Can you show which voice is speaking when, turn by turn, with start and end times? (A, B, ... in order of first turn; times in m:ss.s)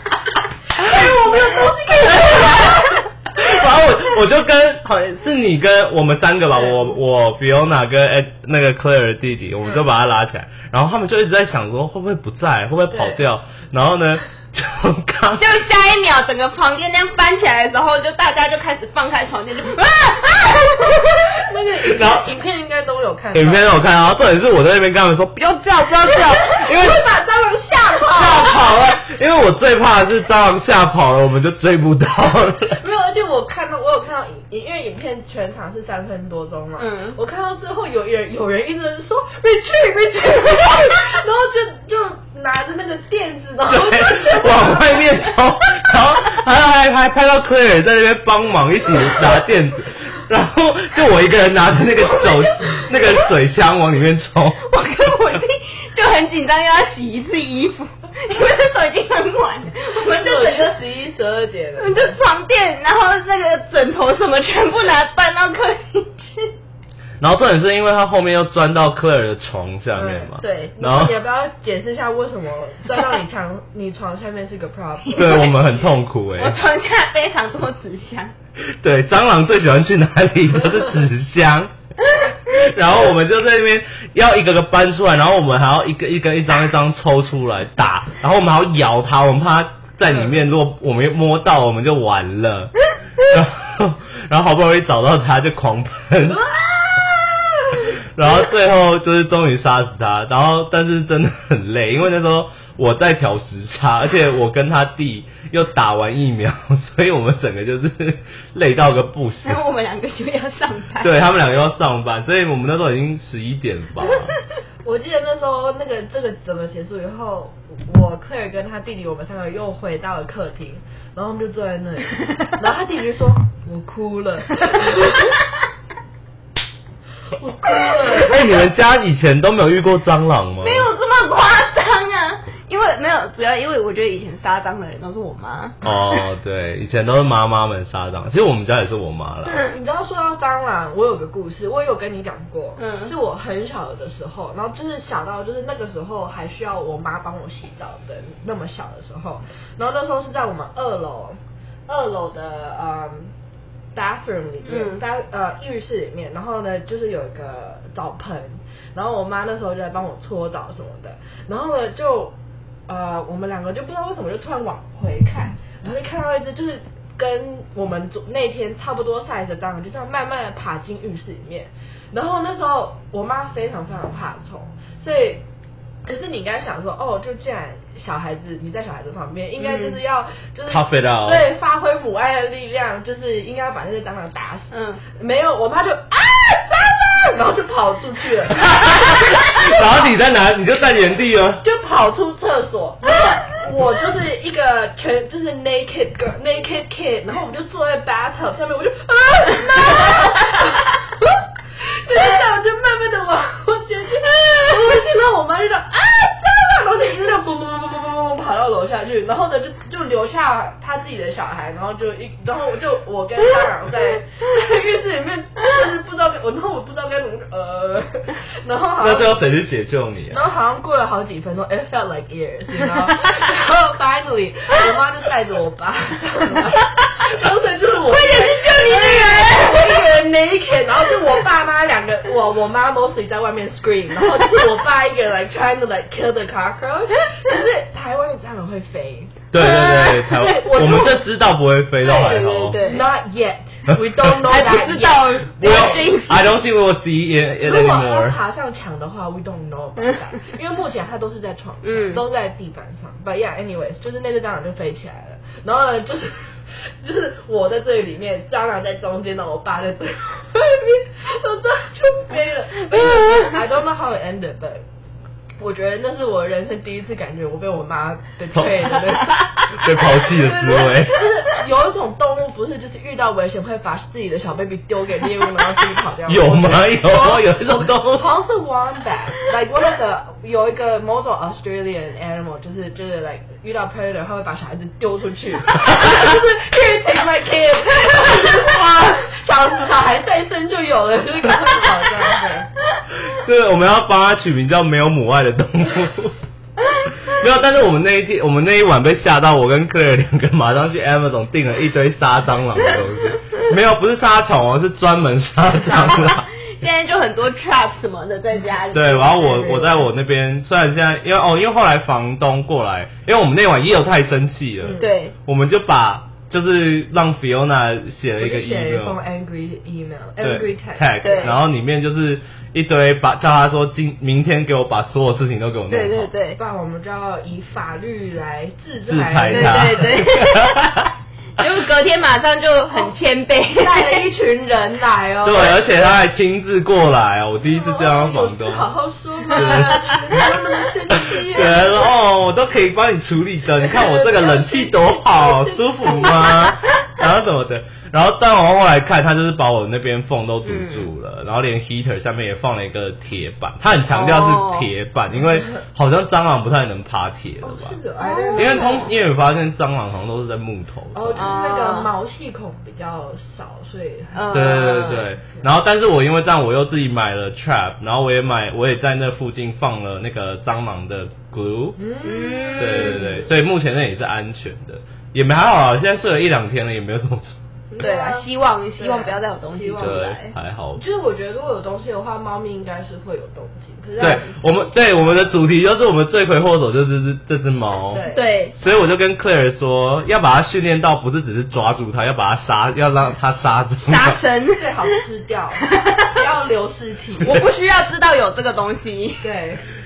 0:00.7-0:03.0 A
0:00.8-0:02.8 B
0:01.3-0:02.9 C
0:03.3-0:15.4 B
0:12.9-0:13.2 A
0:15.4-0:21.3 C
0:21.0-0:23.8 A
0:21.9-0:22.3 B
0:23.3-0:27.0 B
0:26.2-0:28.8 A
0:28.2-0:32.8 B
0:32.7-0:45.2 A
0:36.8-0:37.2 C
0:43.7-0:54.6 B
0:54.6-1:00.8 C
1:00.1-1:02.2 A
1:01.8-1:06.5 C
1:07.2-1:11.2 B
1:10.0-1:15.6 A
1:10.4-1:10.7 C
1:15.1-1:15.5 C
1:15.1-1:16.6 B
1:16.4-1:18.3 C
1:18.8-1:21.7 B
1:22.5-1:36.5 B
1:36.5-1:37.9 A
1:38.1-1:49.6 B
1:49.4-1:51.2 C
1:51.0-1:54.3 B
1:54.8-2:05.4 A
2:07.4-2:08.5 A
2:08.2-2:10.9 B
2:10.6-2:16.2 C
2:15.8-2:19.6 B
2:19.7-2:33.3 A
2:22.8-2:23.1 C
2:33.9-2:42.4 A
2:34.6-2:35.0 C
2:42.9-2:55.4 A
2:56.1-3:09.9 A
2:59.6-3:00.0 C
3:00.7-3:01.5 B
3:04.7-3:05.0 C
3:08.5-3:11.6 B
3:11.6-3:21.4 A
3:22.0-3:39.4 A
3:39.0-3:40.4 B
3:40.3-4:01.3 A
3:46.6-3:47.1 C
3:48.1-3:50.0 C
3:59.5-4:02.8 B
3:59.6-4:00.5 C
4:02.0-4:03.0 C
4:02.1-4:06.2 A
4:04.4-4:06.5 C
4:05.6-4:08.4 B
4:07.6-4:24.8 A
4:11.8-4:12.2 C
4:25.6-4:52.7 A
4:28.5-4:28.9 B
4:29.7-4:31.2 B
4:36.3-4:38.3 B
4:53.2-4:56.4 B
4:57.3-5:06.5 B
5:05.9-5:09.9 C
5:06.0-5:06.3 A
5:08.9-5:19.2 B
5:09.5-5:10.0 A
5:14.8-5:15.1 A
5:15.0-5:15.3 C
5:18.4-5:21.6 A
5:20.4-5:26.3 B
5:21.2-5:21.6 C
5:25.9-5:26.6 C
5:26.6-5:30.2 A
5:29.1-5:31.1 B
5:29.5-5:31.0 C
5:31.6-5:34.2 C
5:33.8-5:36.0 A
5:35.4-5:38.9 B
5:37.6-5:42.1 A
5:39.5-5:40.5 B
5:39.5-5:40.2 C
5:41.1-5:58.0 B
5:43.8-5:46.8 A
5:50.6-5:51.1 C
5:54.1-5:54.9 C
5:57.6-5:59.1 A
5:58.2-5:59.1 C
5:58.6-6:01.6 B
6:01.2-6:05.6 A
6:01.3-6:02.1 C
6:04.3-6:05.2 C
6:04.5-6:12.0 B
6:12.0-6:13.5 A
6:12.2-6:13.4 C
6:12.8-6:17.6 B
6:17.9-6:20.3 A
6:18.0-6:20.6 C
6:20.0-6:21.0 B
6:21.0-6:25.5 A
6:24.2-6:28.2 B
6:28.1-6:28.5 A
6:28.3-6:28.8 C
6:28.8-6:34.4 B
6:34.0-6:35.2 C
6:34.7-6:37.6 A
6:35.8-6:36.4 C
6:37.4-6:39.4 C
6:39.4-6:39.8 A